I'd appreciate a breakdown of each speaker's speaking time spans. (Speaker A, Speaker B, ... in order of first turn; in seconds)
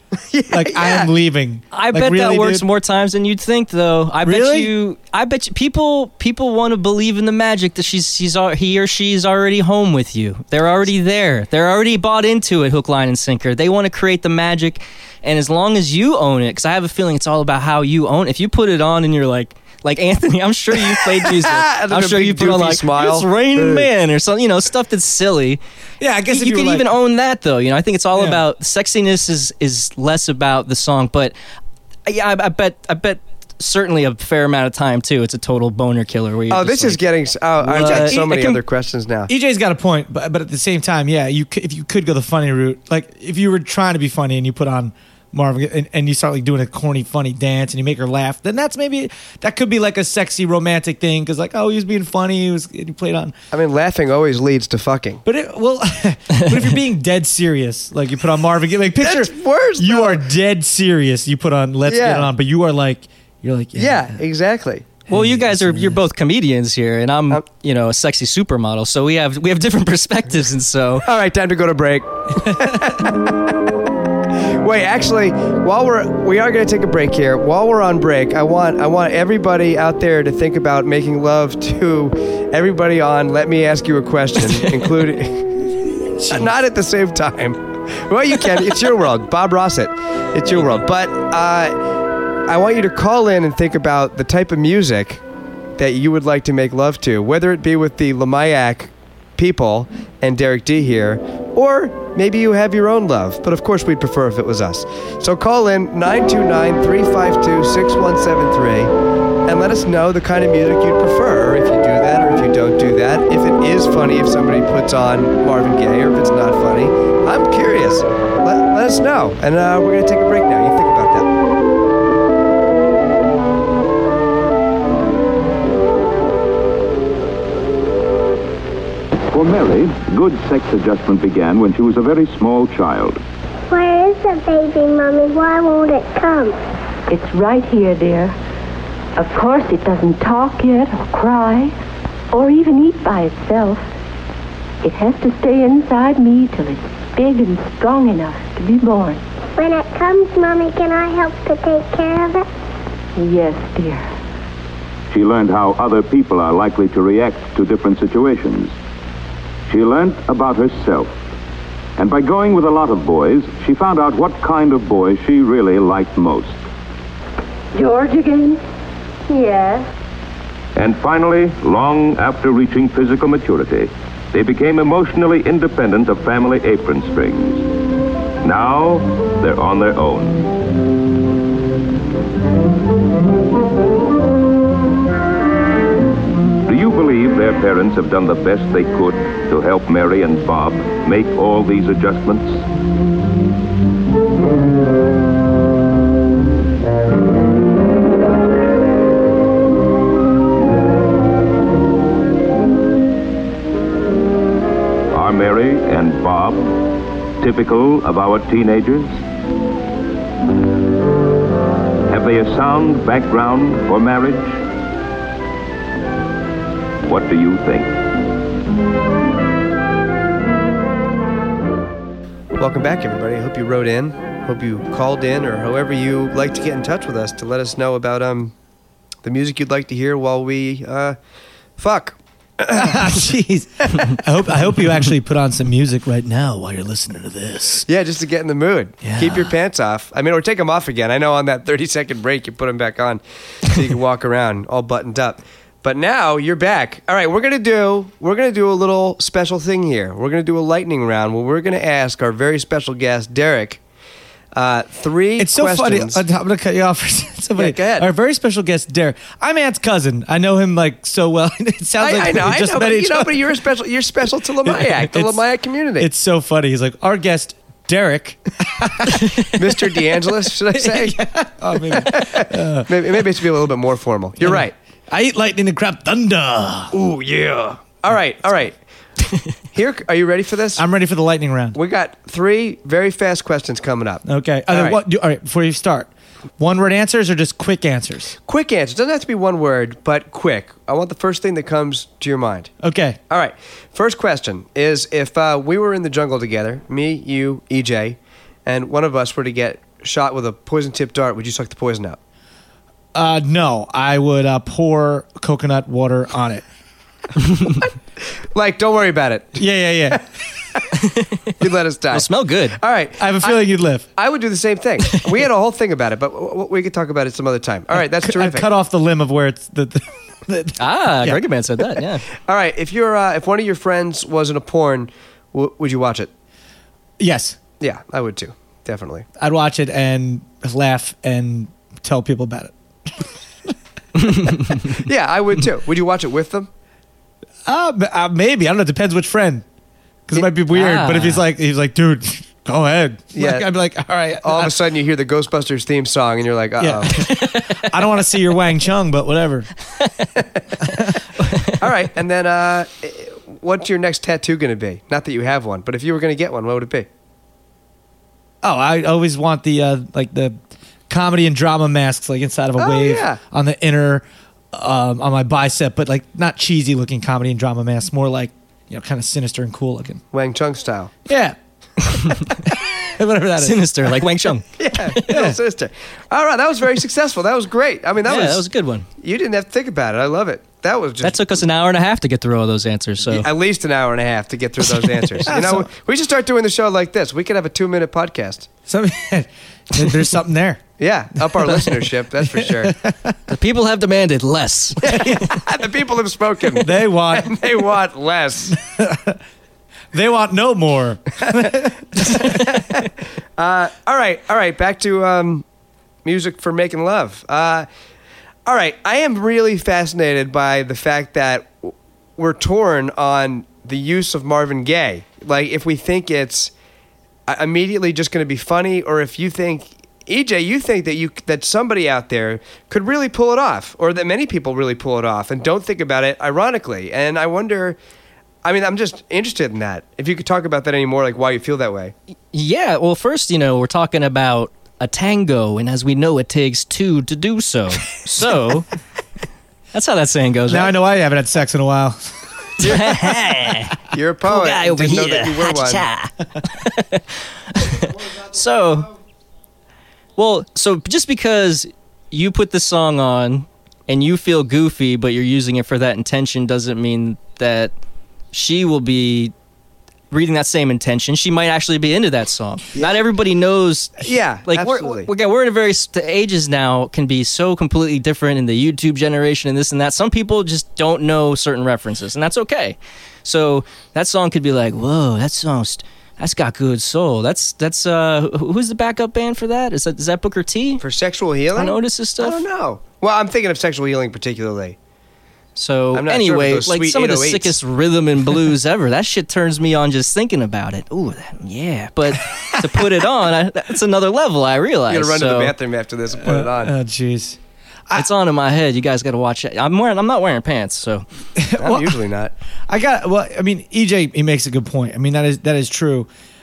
Speaker A: 0.3-1.1, 21.1-23.9, 36.5-39.3, 53.5-55.2, 59.0-60.2, 61.9-62.3, 63.8-65.0, 71.0-73.3, 74.6-85.7, 86.3-91.8, 92.5-95.2, 95.8-108.9, 109.5-121.3, 222.6-228.5, 229.2-231.2, 231.8-233.1, 237.8-253.8, 254.5-256.2, 257.6-258.1, 262.0-266.1, 269.4-271.2, 271.7-274.7, 276.9-278.8, 279.7-280.8, 281.7-285.0, 288.5-292.7, 293.3-302.2, 308.5-310.2, 311.6-313.6, 314.1-318.7, 322.5-326.3, 327.8-329.2, 334.8-336.7, 343.3-343.7, 344.4-347.3, 351.7-357.1, 362.8-363.4, 370.3-371.1, 374.8-378.6, 379.2-381.4, 383.2-388.7, 391.0-392.9, 395.0-398.8, 402.2-405.6, 406.2-407.9, 408.6-416.7, 417.5-428.0, 428.6-432.1, 444.1-446.0, 464.2-465.3, 481.0-485.0, 486.1-487.8, 495.1-496.9, 501.8-502.5
Speaker B: 0.5-2.6, 4.2-4.7, 26.0-26.9, 37.7-38.2, 39.3-53.3, 55.2-64.2, 65.1-66.0, 72.5-72.8, 86.2-86.5, 232.7-237.8, 239.0-239.5, 255.4-263.6, 264.6-265.4, 266.0-269.9, 270.7-273.3, 274.4-276.9, 280.8-281.8, 284.2-288.4, 292.8-293.2, 303.1-306.6, 309.6-310.2, 313.2-314.1, 317.9-321.4, 327.2-327.6, 329.4-333.3, 337.6-339.6, 340.3-344.7, 346.8-349.7, 358.6-360.6, 361.1-370.2, 371.3-374.1, 375.3-375.6, 385.4-385.9, 388.9-390.8, 391.5-393.4, 396.8-397.8, 398.7-399.4, 400.1-402.6, 440.7-442.2, 442.8-443.1, 492.4-493.1, 496.3-497.6, 501.6-502.2, 502.9-506.3
Speaker C: 1.7-25.6, 26.3-31.3, 32.0-37.0, 37.6-38.6, 65.1-71.1, 311.0-311.6, 312.1-312.8, 320.8-322.2, 340.7-341.4, 347.2-347.8, 373.6-375.2, 378.2-379.1, 381.2-383.5, 393.5-395.4, 432.5-438.9, 439.9-440.9, 442.8-449.1, 450.4-457.9, 458.5-459.5, 460.3-481.0, 481.8-482.6, 485.8-495.7, 498.1-501.2
Speaker D: 129.3-133.2, 155.1-158.7, 159.7-161.1, 162.0-166.6, 170.7-177.7, 178.4-180.4, 186.6-192.7, 205.1-206.7, 207.4-209.2, 212.1-214.6, 217.0-218.0
Speaker E: 133.7-136.6, 149.6-152.5
Speaker F: 137.1-138.3, 139.2-141.7, 142.3-143.8, 144.8-149.2, 153.2-154.1, 167.7-168.6, 169.3-169.8